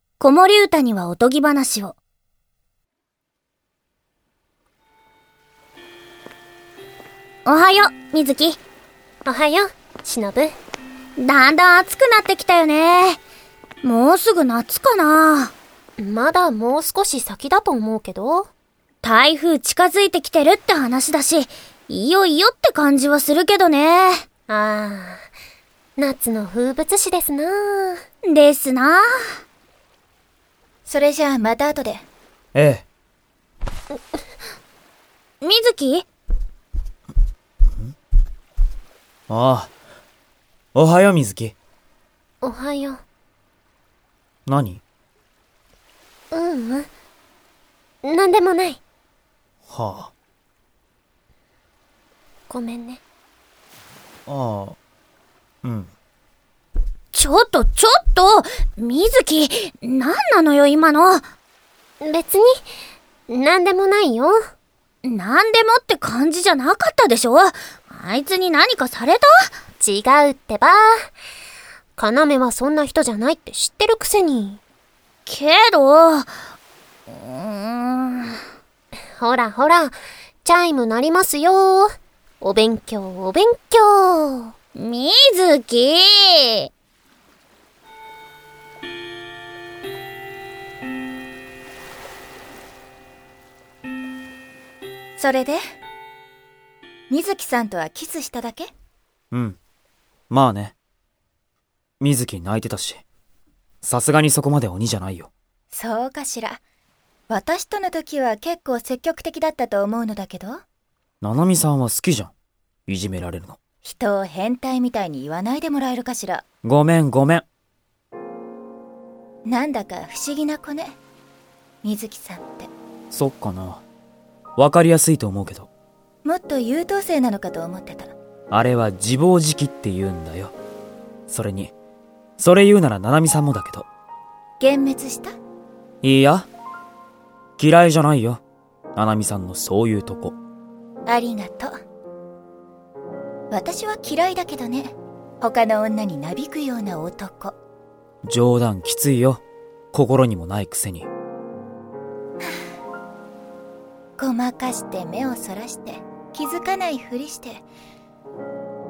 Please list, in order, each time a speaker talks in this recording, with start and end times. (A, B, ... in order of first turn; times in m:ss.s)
0:00.2-0:02.0 A
0:07.4-0:08.6 A
0:09.2-0:10.5 B
0:11.2-0:13.2 A
0:13.8-0:15.5 A
0:16.0-0:18.5 B
0:19.0-0:24.2 A
0:24.5-0:25.2 B
0:26.0-0:28.0 B
0:28.3-0:29.0 A
0:30.8-0:32.0 C
0:32.5-0:32.8 D
0:35.4-0:36.0 A
0:39.3-0:39.7 D
0:40.7-0:41.6 D
0:42.4-0:43.0 B
0:44.5-0:44.8 D
0:46.3-0:46.9 B
0:48.0-0:48.8 B
0:49.7-0:50.1 D
0:52.5-0:53.0 B
0:54.3-0:54.8 D
0:55.6-0:55.9 D
0:57.1-1:01.2 A
1:02.0-1:02.6 B
1:03.3-1:04.4 B
1:05.0-1:09.5 A
1:09.8-1:11.0 B
1:12.0-1:14.6 B
1:15.2-1:16.3 A
1:17.1-1:18.4 A
1:19.2-1:24.5 B
1:24.7-1:26.7 A
1:35.2-1:35.6 C
1:37.1-1:38.7 C
1:39.3-1:39.6 D
1:40.3-1:40.7 D
1:42.0-1:43.0 D
1:43.8-1:45.3 D
1:45.7-1:46.6 C
1:47.3-1:50.6 C
1:51.2-1:52.3 D
1:52.9-1:53.6 D
1:53.8-1:56.4 C
1:56.6-1:57.4 D
1:59.5-2:01.0 C
2:01.8-2:02.7 C
2:03.1-2:03.8 D
2:04.6-2:05.7 D
2:06.2-2:08.1 C
2:08.5-2:10.5 D
2:11.3-2:11.7 D
2:12.4-2:13.9 D
2:14.6-2:15.3 C
2:16.0-2:16.5 D
2:17.6-2:18.4 D
2:19.0-2:20.4 D
2:21.1-2:21.7 C
2:23.5-2:27.5 C
2:28.2-2:29.4 D
2:29.9-2:31.1 D
2:34.2-2:37.6 C